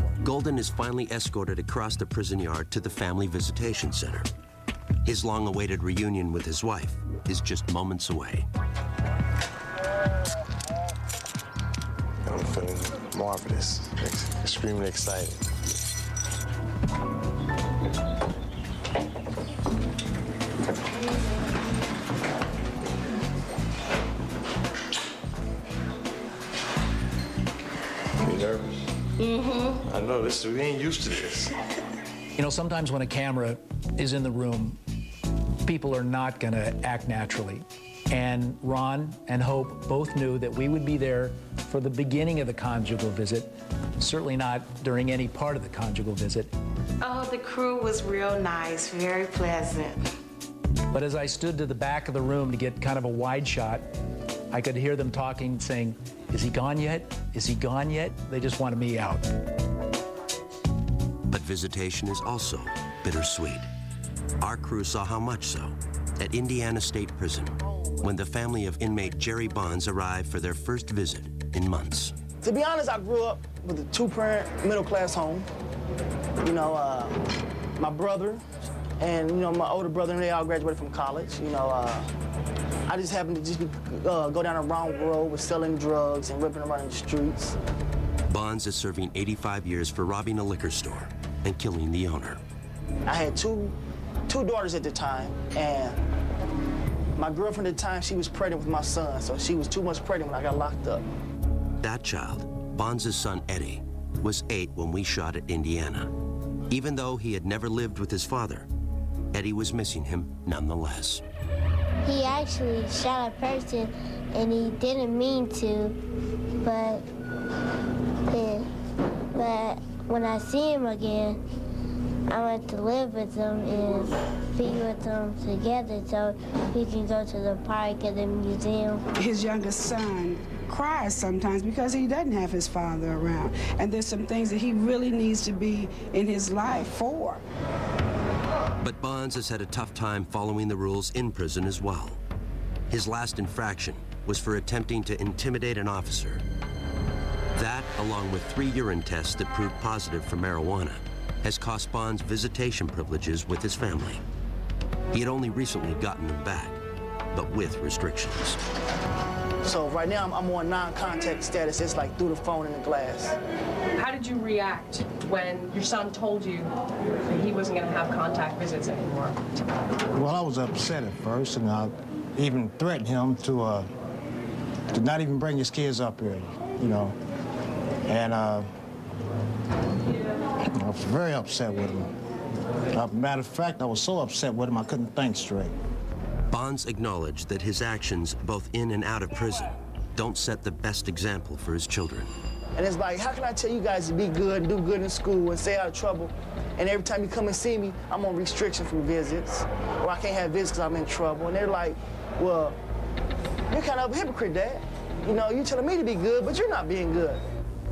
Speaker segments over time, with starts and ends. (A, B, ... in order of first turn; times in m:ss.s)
0:00.2-0:04.3 A
0:05.0-0:08.4 A
0:12.2-0:15.4 B
0:28.2-0:28.7 B
0:29.8-0:31.5 B
0:32.4-0:34.8 C
0:35.6-0:46.5 C
0:47.0-0:50.0 D
0:50.9-0:53.9 C
0:54.5-0:59.3 C
1:01.3-1:03.7 A
1:04.4-1:12.1 A
1:12.4-1:15.5 E
1:16.4-1:17.2 E
1:17.8-1:18.4 E
1:19.0-1:22.1 E
1:22.9-1:27.6 E
1:28.3-1:32.4 A
1:33.1-1:33.7 E
1:34.3-1:36.0 E
1:37.2-1:41.0 E
1:41.8-1:46.1 A
1:46.7-1:48.7 A
1:49.3-1:51.2 A
1:52.0-1:56.0 F
1:56.6-1:57.0 F
1:58.3-1:58.7 F
1:59.3-2:01.4 F
2:02.3-2:09.0 F
2:09.2-2:17.4 G
2:18.8-2:22.2 A
2:22.9-2:26.4 A
2:27.5-2:34.2 A
2:35.1-2:36.8 A
2:37.3-2:38.6 A
2:39.6-2:43.4 E
2:43.9-2:46.7 H
2:47.2-2:49.4 H
2:50.1-2:53.9 I
2:54.9-2:57.2 I
2:58.1-2:58.7 I
3:00.8-3:02.1 I
3:02.9-3:05.7 I
3:06.5-3:12.3 A
3:12.8-3:22.8 E
3:23.7-3:27.4 E